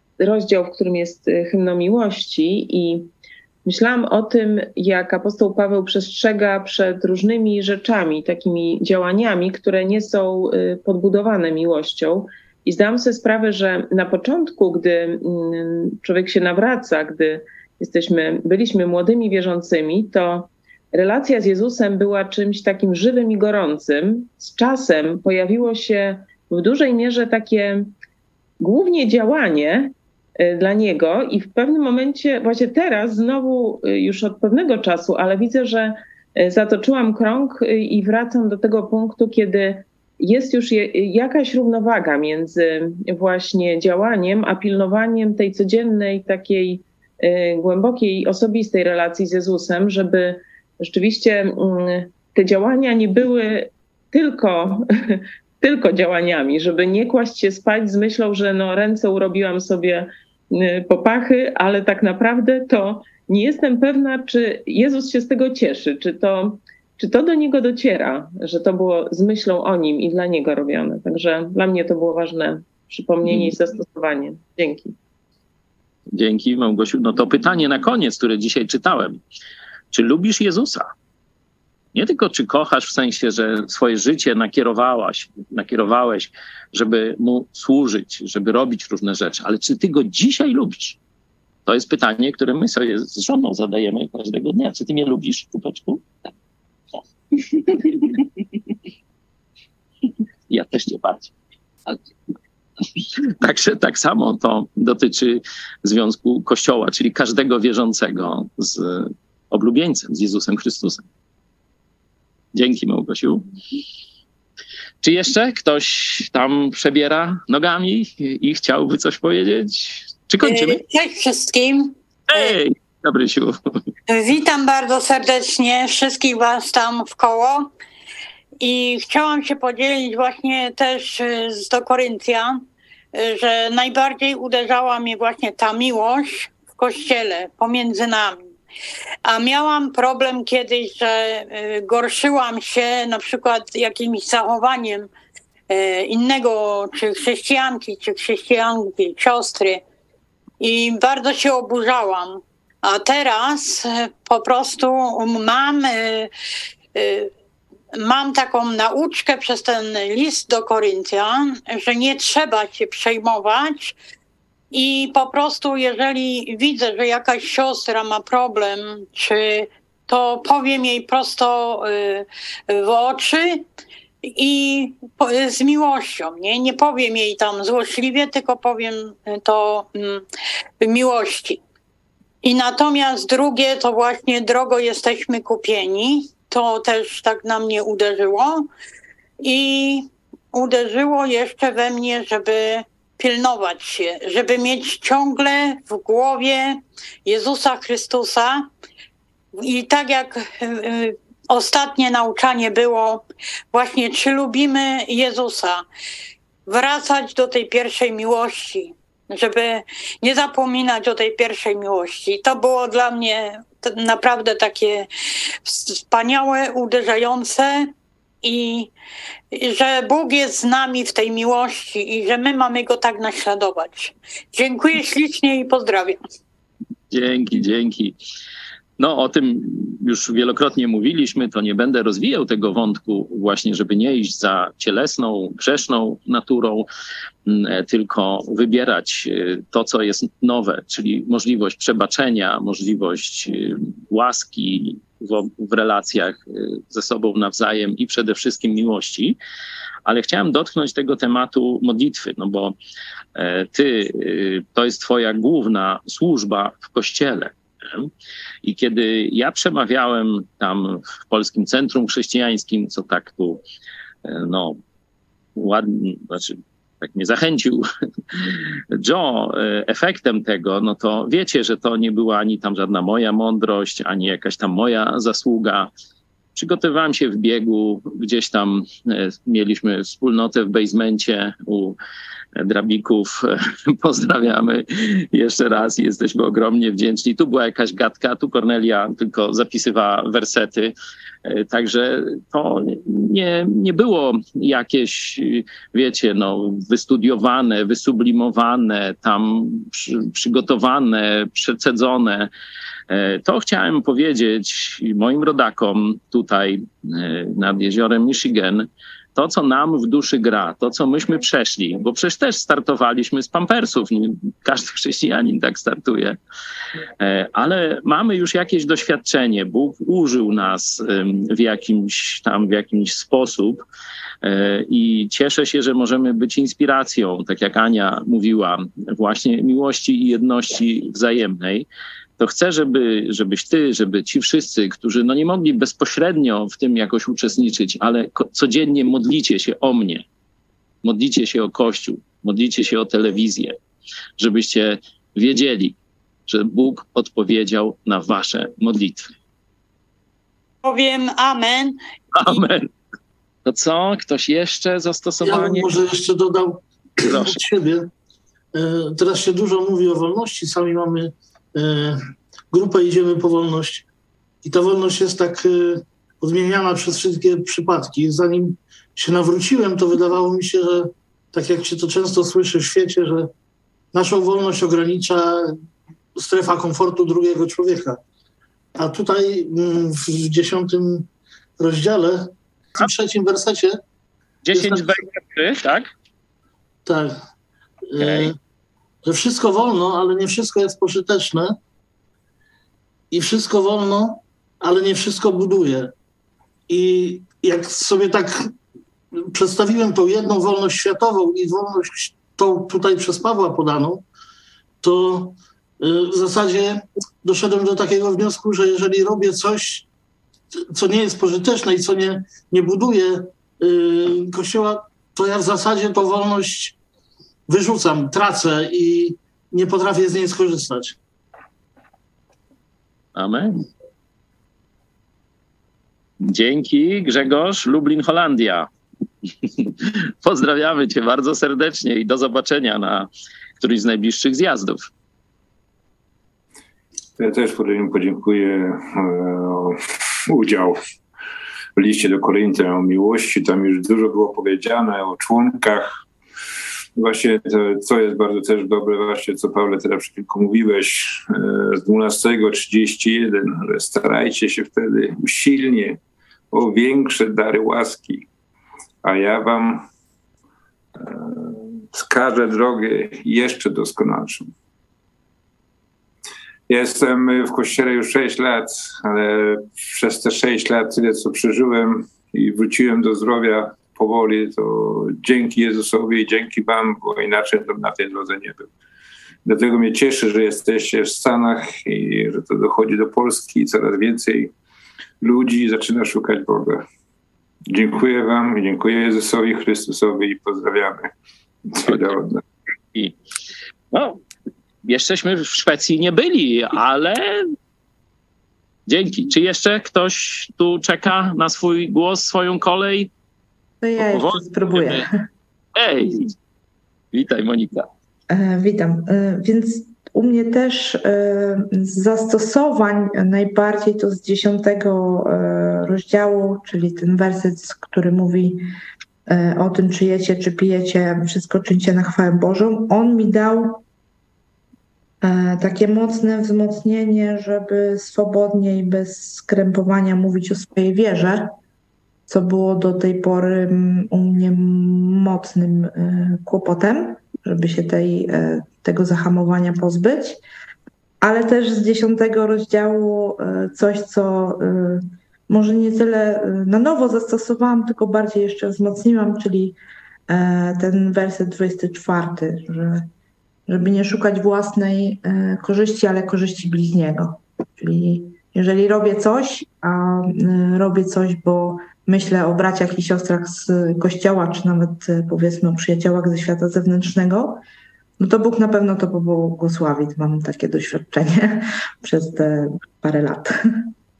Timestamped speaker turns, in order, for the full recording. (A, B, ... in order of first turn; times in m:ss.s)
0:00.2-0:03.1 A
0:03.6-0:27.9 A
0:28.6-1:14.9 A
1:16.1-1:19.2 B
1:19.9-1:20.9 B
1:21.9-1:31.0 B
1:31.6-1:36.2 B
1:37.5-1:38.1 B
1:40.5-1:41.3 B
1:43.4-1:51.0 B
1:52.5-1:53.4 B
1:55.0-2:00.8 B
2:00.4-2:02.6 C
2:02.3-2:03.6 B
2:04.1-2:07.7 C
2:08.6-2:12.6 C
2:13.1-2:18.5 C
2:19.2-2:25.1 C
2:25.7-2:29.8 C
2:30.6-2:36.3 C
2:36.9-2:37.3 C
2:38.0-2:44.0 C
2:44.7-2:53.6 C
2:54.2-3:00.2 C
3:00.8-3:01.6 C
3:02.4-3:08.7 C
3:09.4-3:18.7 C
3:19.5-3:25.8 C
3:26.7-3:35.1 C
3:35.6-3:37.9 C
3:38.4-3:38.9 C
3:39.5-3:46.2 C
3:47.1-3:48.1 B
3:49.0-3:56.9 B
3:57.4-4:09.4 B
4:10.0-4:12.7 B
4:13.4-4:18.1 B
4:18.6-4:23.6 B
4:24.2-4:24.8 B
4:25.6-4:35.9 B
4:36.5-4:42.0 B
4:42.6-4:50.9 B
4:51.4-5:02.5 B
5:03.1-5:16.4 B
5:17.2-5:23.8 B
5:24.4-5:31.9 B
5:32.4-5:40.2 B
5:41.0-5:43.7 B
5:44.4-5:45.9 B
5:46.5-5:49.3 B
5:50.8-5:52.0 C
5:52.4-5:52.9 B
5:53.6-5:56.0 B
5:55.4-5:58.1 D
5:57.3-5:57.6 B
5:58.7-6:02.2 D
6:02.7-6:04.0 D
6:04.6-6:13.5 D
6:14.1-6:15.7 D
6:16.4-6:18.2 D
6:19.0-6:21.2 D
6:21.8-6:24.0 D
6:24.6-6:26.1 B
6:24.7-6:25.1 D
6:27.0-6:27.4 D
6:28.1-6:28.5 D
6:28.2-6:28.5 B
6:29.2-6:31.8 D
6:33.3-6:36.1 D
6:36.9-6:38.5 D
6:39.5-6:44.2 D
6:45.0-6:50.0 D
6:50.9-6:56.9 D
6:57.7-7:01.2 D
7:03.3-7:03.8 B
7:06.4-7:08.9 B
7:09.8-7:13.3 B
7:13.8-7:15.0 B
7:17.4-7:21.0 E
7:22.0-7:26.2 E
7:27.2-7:36.2 E
7:36.7-7:38.4 E
7:39.2-7:40.1 E
7:41.1-7:44.7 E
7:46.9-7:58.9 E
7:59.6-8:04.7 E
8:05.4-8:07.0 E
8:07.9-8:11.3 E
8:11.9-8:12.6 E
8:12.0-8:12.3 B
8:14.1-8:14.4 B
8:15.0-8:17.7 B
8:19.1-8:23.3 B
8:24.0-8:25.4 F
8:24.2-8:25.3 B
8:26.0-8:26.5 B
8:27.3-8:28.1 B
8:28.5-8:38.8 F
8:39.5-8:44.0 F
8:45.4-8:51.7 F
8:52.5-9:00.6 F
9:01.4-9:10.0 F
9:10.5-9:13.3 F
9:13.9-9:27.8 F
9:28.4-9:33.7 F